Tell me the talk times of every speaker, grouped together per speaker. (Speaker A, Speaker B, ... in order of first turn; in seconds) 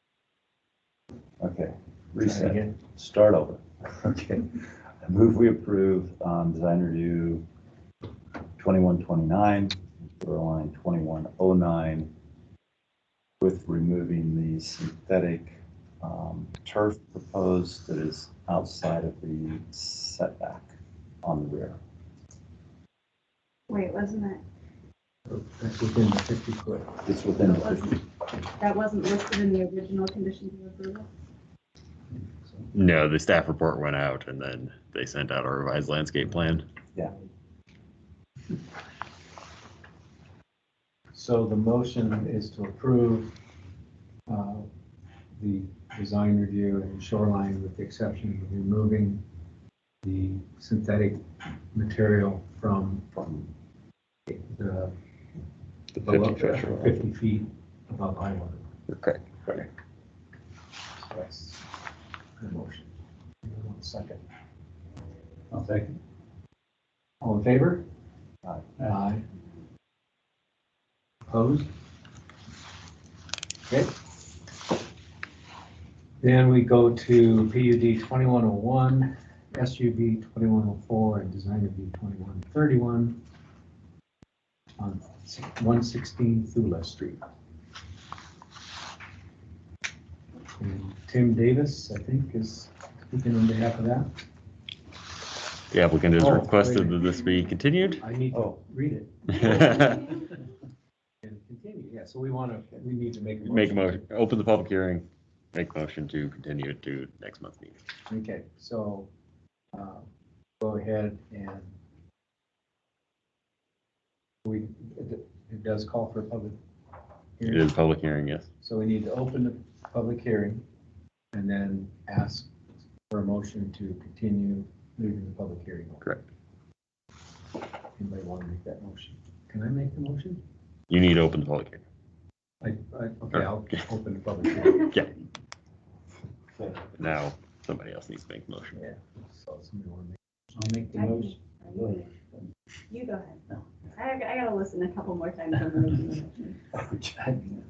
Speaker A: 1.4-7.4, 8.6-12.1, 13.4-21.8, 27.0-28.0, 53.1-53.5, 98.3-98.6, 146.8-147.1
Speaker B: 2.2-2.8, 25.3-27.0, 41.1-43.3, 44.3-44.6, 45.4-49.2, 50.0-51.2, 51.7-53.0, 54.3-54.9, 56.0-58.6, 61.0-61.6, 62.4-62.9, 63.4-64.2, 67.2-67.8, 68.8-69.2, 71.3-71.7, 76.2-83.2, 84.8-87.2, 90.6-94.1, 96.1-97.1, 98.0-100.0, 101.2-104.1, 108.1-109.1, 109.7-110.0, 110.6-111.7, 114.4-116.6, 117.4-117.7, 118.6-120.6, 121.3-122.5, 123.1-126.0, 128.0-130.4, 132.6-134.9, 138.7-140.2
Speaker C: 23.7-24.4, 27.4-28.0, 28.6-31.1, 140.9-142.1, 142.9-143.4, 143.9-146.6
Speaker D: 32.7-36.6, 56.0-57.0, 58.9-59.2, 95.7-98.0, 99.3-100.1, 103.4-107.8, 117.4-118.5, 130.9-131.8, 136.9-138.8
Speaker E: 65.5-66.0, 140.5-142.4